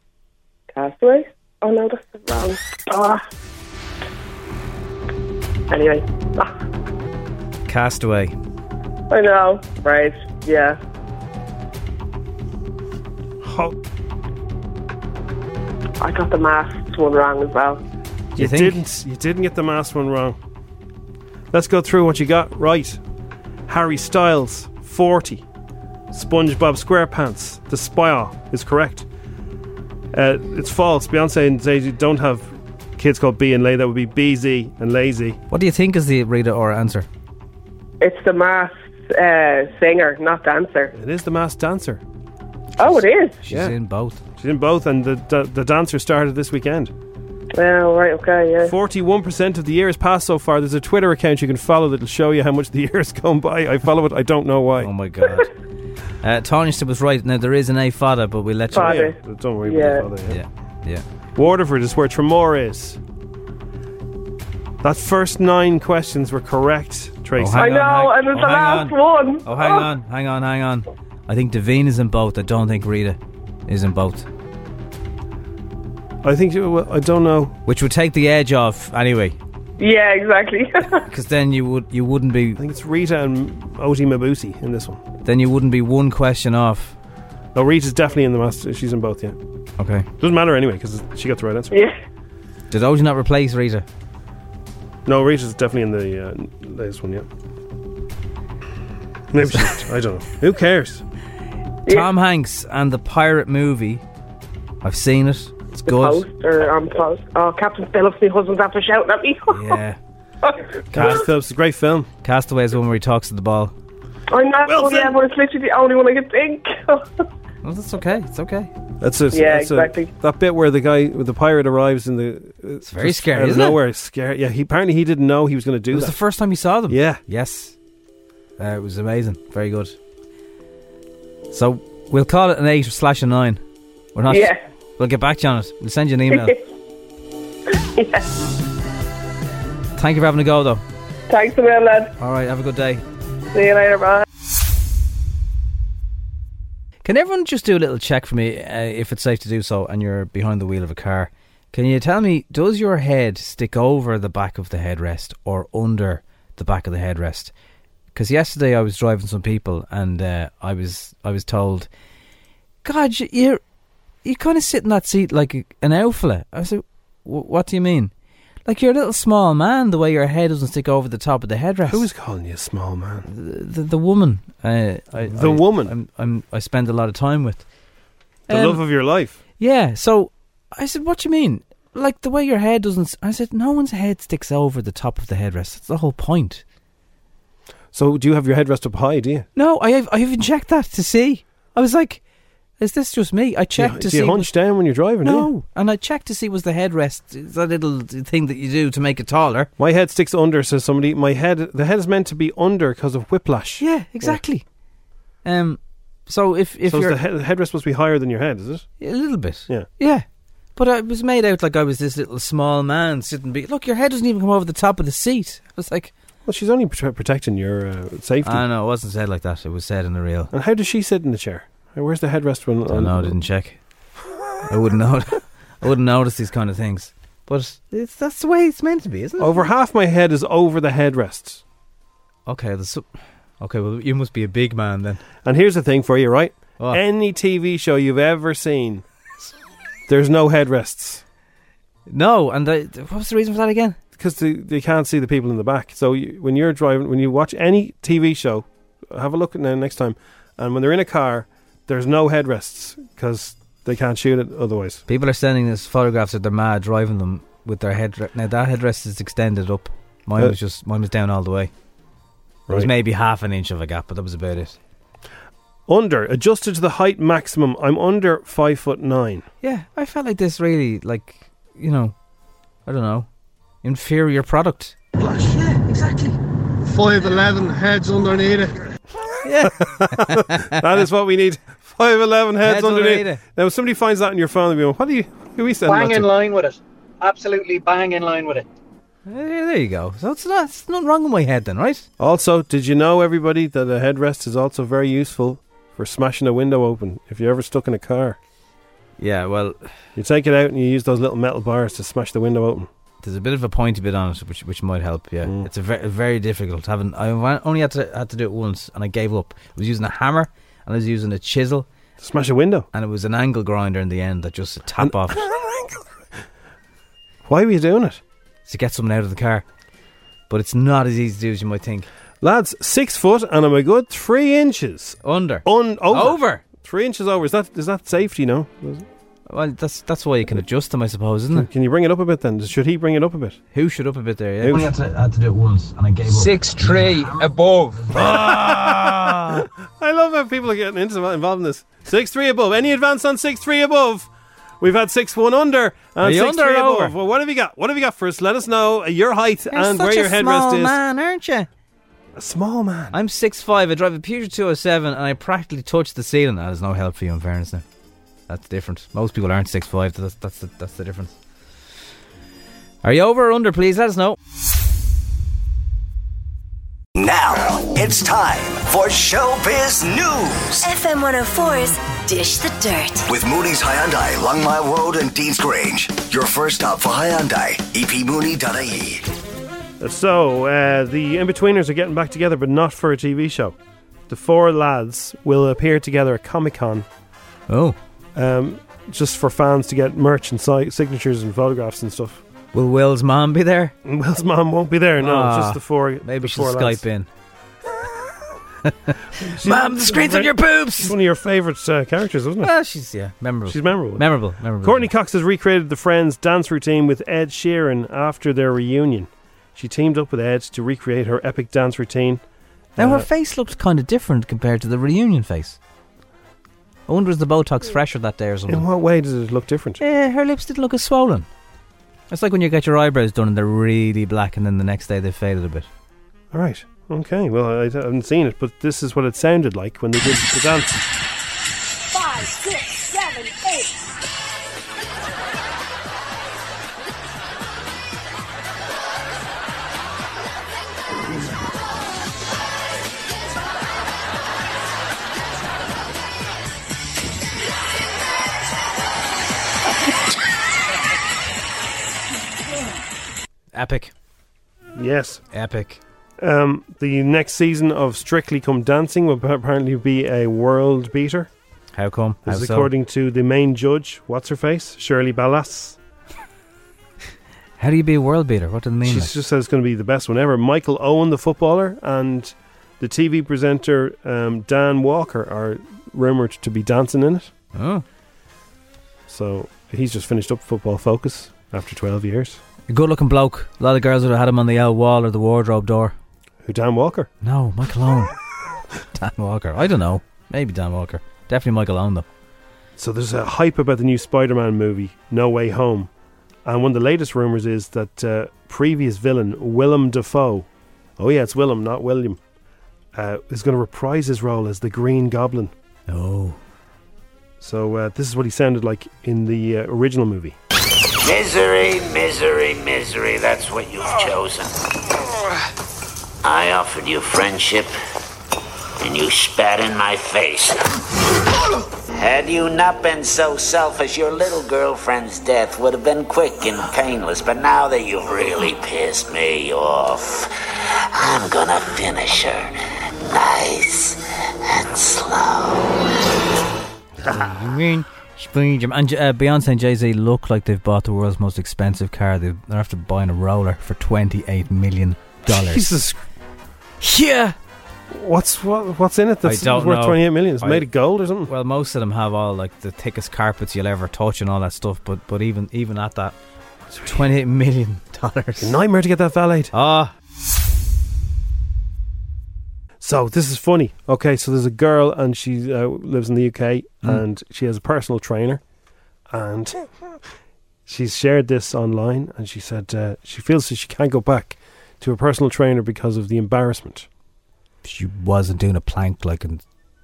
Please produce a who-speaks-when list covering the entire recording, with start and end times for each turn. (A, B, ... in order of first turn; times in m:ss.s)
0:00.7-0:03.2 A
0:05.7-0:06.5 A
0:07.6-0:08.3 B
0:09.1-0:10.8 A
0:13.4-0:13.7 C
0:16.0-0:17.8 A
0:18.4-0:18.8 B
0:18.4-0:20.4 C
0:21.5-0:23.0 C
0:23.7-0:25.4 C
0:26.1-0:29.1 C
0:30.1-0:35.4 C
0:35.5-0:37.0 B
0:38.0-0:40.9 A
0:40.9-0:42.0 C
0:42.8-0:43.4 A
0:43.4-0:44.2 B
0:43.5-0:43.7 C
0:44.4-0:46.9 C
0:47.5-0:48.7 A
0:48.6-0:54.9 C
0:54.8-0:55.5 B
0:56.2-0:59.1 B
0:58.7-1:00.1 A
0:58.7-1:00.4 C
1:00.3-1:01.0 B
1:01.4-1:03.0 C
1:04.8-1:07.7 C
1:07.4-1:14.3 B
1:07.5-1:09.9 A
1:16.2-1:17.6 C
1:17.7-1:19.4 B
1:19.8-1:21.0 A
1:21.0-1:22.6 B
1:22.6-1:25.0 C
1:25.2-1:26.9 B
1:27.5-1:29.4 C
1:29.8-1:30.0 B
1:30.2-1:31.8 C
1:32.7-1:33.8 B
1:35.0-1:37.3 C
1:39.3-1:41.0 C
1:41.9-1:44.0 B
1:44.8-1:46.2 B
1:45.8-1:49.8 A
1:49.5-1:50.0 B
1:50.9-1:52.1 C
1:50.9-1:51.2 B
1:52.2-1:53.7 B
1:54.3-1:57.1 A
1:54.6-1:55.2 C
1:57.6-1:58.7 B
1:59.0-2:06.1 C
1:59.3-2:00.1 A
2:02.8-2:03.8 B
2:05.9-2:07.7 B
2:06.9-2:07.2 C
2:08.6-2:09.9 B
2:11.5-2:13.6 B
2:14.1-2:16.6 B
2:14.3-2:14.6 A
2:16.3-2:16.6 A
2:17.9-2:18.3 A
2:20.0-2:20.8 B
2:21.3-2:22.1 A
2:22.2-2:23.0 B
2:23.5-2:24.2 A
2:27.0-2:37.5 B
2:38.1-2:41.9 B
2:42.8-2:43.6 B
2:44.2-2:48.1 B
2:48.6-2:52.0 B
2:51.9-2:53.3 C
2:53.3-2:57.6 B
2:55.3-2:55.9 C
2:58.5-2:58.8 B
2:58.5-2:59.4 C
2:59.6-3:06.6 B
3:07.9-3:09.5 C
3:09.6-3:12.2 B
3:12.8-3:14.5 B
3:13.8-3:15.5 C
3:15.2-3:19.7 B
3:19.8-3:24.4 C
3:23.8-3:24.6 B
3:25.4-3:27.2 B
3:26.9-3:28.9 C
3:29.0-3:30.2 B
3:30.8-3:36.1 B
3:36.4-3:38.6 C
3:38.4-3:40.5 B
3:40.5-3:43.3 C
3:42.9-3:43.8 B
3:44.7-3:49.7 B
3:49.4-3:51.6 C
3:52.4-3:53.1 B
3:53.6-3:55.2 B
3:55.4-3:59.0 C
4:00.1-4:01.2 C
4:02.1-4:04.0 B
4:04.2-4:15.0 C
4:15.1-4:21.7 B
4:22.7-4:24.8 B
4:25.9-4:29.4 C
4:29.6-4:32.1 B
4:32.8-4:33.3 B
4:33.8-4:36.4 B
4:37.2-4:38.6 C
4:39.4-4:40.8 B
4:39.6-4:46.3 C
4:42.6-4:43.4 B
4:45.8-4:48.6 D
4:49.3-4:52.0 B
4:52.2-4:58.4 C
4:59.2-4:59.9 B
5:00.2-5:02.9 C
5:03.2-5:11.9 B
5:12.2-5:12.9 C
5:12.9-5:15.4 B
5:15.0-5:16.0 C
5:17.4-5:18.2 C
5:18.7-5:19.6 B
5:20.5-5:22.1 B
5:22.4-5:29.1 C
5:25.2-5:26.6 B
5:29.5-5:31.7 B
5:31.5-5:33.6 C
5:33.7-5:39.7 B
5:34.6-5:34.9 C
5:38.1-5:44.3 C
5:44.8-5:51.0 C
5:46.2-5:47.1 B
5:49.7-5:51.7 B
5:52.3-5:53.2 C
5:53.1-5:57.8 B
5:58.5-6:01.3 B
6:03.0-6:04.4 B
6:07.2-6:10.9 E
6:10.8-6:13.2 F
6:13.3-6:19.2 E
6:20.0-6:23.8 C
6:24.3-6:27.1 C
6:27.7-6:28.0 B
6:28.3-6:32.4 C
6:32.7-6:33.9 B
6:34.0-6:37.0 C
6:35.2-6:37.3 B
6:38.9-6:41.2 B
6:39.4-6:42.7 C
6:42.6-6:45.1 B
6:43.6-6:44.2 C
6:44.8-6:52.4 C
6:53.0-6:53.3 C
6:53.0-6:55.8 B
6:57.1-6:58.8 B
6:58.7-7:00.0 C
7:00.0-7:01.5 B
7:02.3-7:05.9 B
7:06.5-7:11.0 C
7:33.7-7:34.1 B
7:35.0-7:35.4 C
7:35.5-7:36.0 B
7:36.4-7:41.5 C
7:41.9-7:42.9 B
7:42.4-7:46.0 C
7:47.8-7:49.3 B
7:49.0-7:57.5 C
7:57.7-7:58.0 B
7:59.3-8:02.6 C
8:02.9-8:06.1 B
8:06.6-8:07.3 C
8:07.4-8:08.3 B
8:09.1-8:12.2 B
8:13.0-8:16.1 C
8:16.6-8:20.7 C
8:21.2-8:22.4 C
8:23.1-8:25.7 C
8:26.1-8:26.6 B
8:27.6-8:30.6 C
8:31.2-8:34.7 G
8:36.4-8:37.9 G
8:39.0-8:40.8 G
8:42.1-8:50.5 G
8:51.1-8:52.7 G
8:53.3-8:55.9 G
8:57.2-9:06.0 B
9:05.5-9:06.2 C
9:07.0-9:07.6 B
9:08.1-9:11.5 C
9:09.4-9:10.9 B
9:11.4-9:16.3 B
9:16.9-9:17.2 C
9:17.0-9:18.8 B
9:18.6-9:19.7 C
9:19.7-9:20.1 B
9:23.0-9:28.6 C
9:29.3-9:29.9 C
9:30.8-9:37.1 C
9:37.8-9:39.6 B